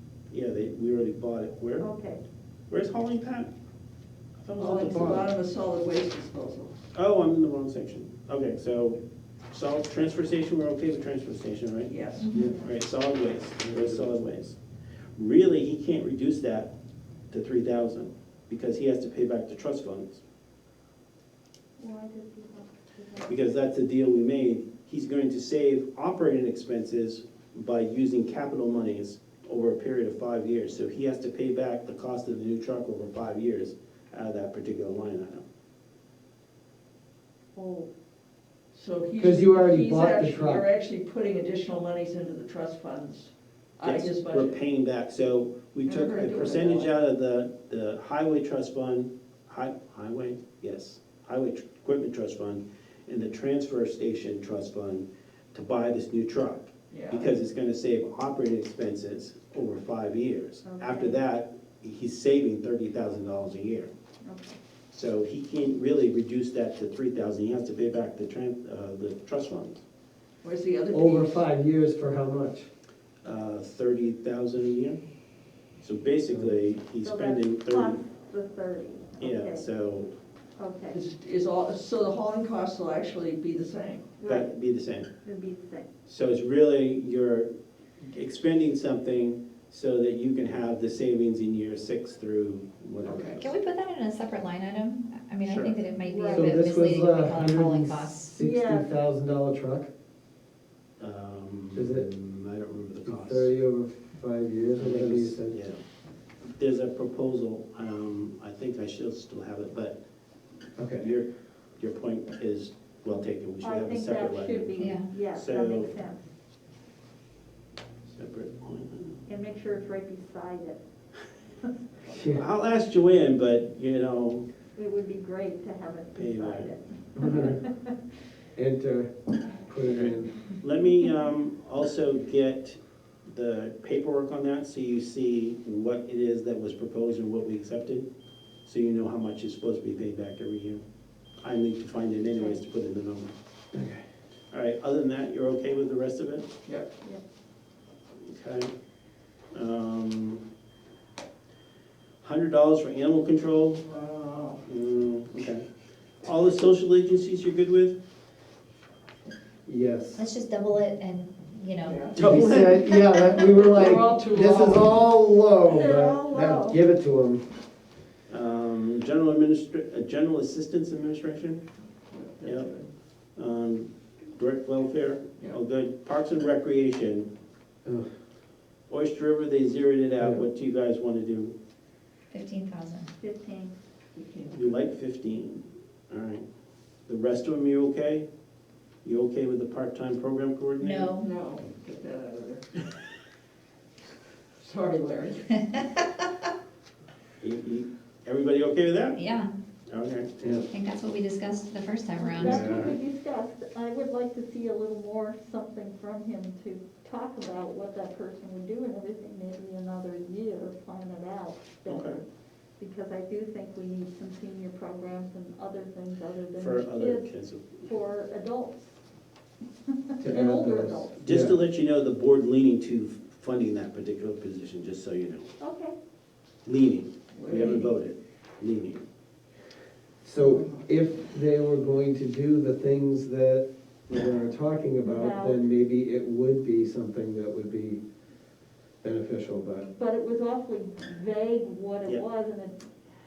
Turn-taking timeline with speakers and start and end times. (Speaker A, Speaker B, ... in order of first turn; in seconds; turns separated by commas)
Speaker A: 0.3-1.9, Speaker B: 1.8-2.2, Speaker A: 2.7-3.5, Speaker A: 4.4-5.3, Speaker C: 4.6-6.8, Speaker A: 6.9-9.0, Speaker A: 9.5-11.9, Speaker C: 11.9-12.3, Speaker D: 12.2-12.5, Speaker B: 12.3-12.7, Speaker A: 12.6-14.6, Speaker E: 13.6-14.1, Speaker A: 15.2-16.7, Speaker A: 17.3-20.2, Speaker B: 21.8-23.5, Speaker A: 23.2-35.4, Speaker B: 37.5-37.9, Speaker C: 38.7-44.6, Speaker E: 39.2-40.6, Speaker A: 43.8-63.9, Speaker C: 45.9-46.9, Speaker C: 56.9-57.3, Speaker B: 60.6-61.2, Speaker B: 64.3-64.6, Speaker A: 64.9-69.8, Speaker C: 70.4-71.4, Speaker E: 70.9-72.7, Speaker A: 73.2-75.0, Speaker A: 75.8-78.0, Speaker E: 76.3-76.6, Speaker B: 77.0-79.7, Speaker A: 79.2-80.1, Speaker B: 80.6-81.0, Speaker C: 80.9-84.1, Speaker B: 84.2-84.5, Speaker A: 84.2-85.1, Speaker B: 85.2-85.9, Speaker A: 86.1-93.5, Speaker C: 93.0-93.4, Speaker D: 93.4-98.3, Speaker A: 95.4-95.8, Speaker B: 96.0-96.7, Speaker E: 96.3-99.9, Speaker B: 98.4-98.9, Speaker A: 101.0-103.5, Speaker E: 101.8-102.1, Speaker E: 103.0-105.6, Speaker A: 104.8-105.8, Speaker A: 106.5-110.0, Speaker E: 110.8-111.1, Speaker A: 111.0-111.3, Speaker A: 111.8-114.8, Speaker B: 113.6-116.2, Speaker D: 114.8-115.1, Speaker A: 115.3-116.0, Speaker A: 118.1-119.2, Speaker B: 119.3-120.8, Speaker B: 121.6-122.0, Speaker E: 122.1-122.4, Speaker A: 122.3-124.5, Speaker B: 124.8-128.0, Speaker A: 126.1-127.5, Speaker E: 127.2-127.6, Speaker E: 128.6-129.1, Speaker E: 129.7-130.4, Speaker A: 129.9-138.1, Speaker A: 138.7-140.8, Speaker A: 141.4-143.3, Speaker E: 143.7-144.0, Speaker A: 144.5-146.5, Speaker A: 148.2-148.7, Speaker A: 149.5-150.4, Speaker A: 152.2-153.8, Speaker C: 153.8-154.6, Speaker A: 154.7-155.6, Speaker A: 156.2-158.0, Speaker E: 159.7-160.2, Speaker D: 160.2-162.3, Speaker C: 161.8-164.9, Speaker A: 162.2-162.8, Speaker E: 162.2-167.4, Speaker B: 165.7-166.8, Speaker A: 168.3-171.6, Speaker C: 172.1-172.9, Speaker A: 172.4-172.7, Speaker A: 173.4-177.3, Speaker A: 178.9-181.6, Speaker E: 180.2-180.4, Speaker D: 182.3-183.1, Speaker B: 183.2-183.8, Speaker C: 184.1-184.8, Speaker A: 184.5-186.4, Speaker A: 187.1-188.3, Speaker A: 189.0-191.1, Speaker D: 190.8-191.3, Speaker C: 191.2-192.6, Speaker C: 194.6-195.6, Speaker A: 197.4-199.2, Speaker D: 199.2-199.5, Speaker A: 199.9-200.3, Speaker E: 200.4-200.7, Speaker D: 200.7-202.8, Speaker B: 202.2-212.2, Speaker E: 202.4-202.9, Speaker A: 211.9-212.2, Speaker B: 212.8-217.3, Speaker A: 216.6-217.9, Speaker B: 217.8-219.0, Speaker B: 219.9-221.2, Speaker E: 220.2-221.6, Speaker A: 221.2-225.5, Speaker B: 225.6-225.9, Speaker A: 226.7-229.0, Speaker C: 227.3-227.9, Speaker E: 230.2-238.0, Speaker C: 230.4-230.9, Speaker A: 234.1-234.3, Speaker B: 235.0-235.6, Speaker E: 239.0-239.9, Speaker B: 239.9-242.9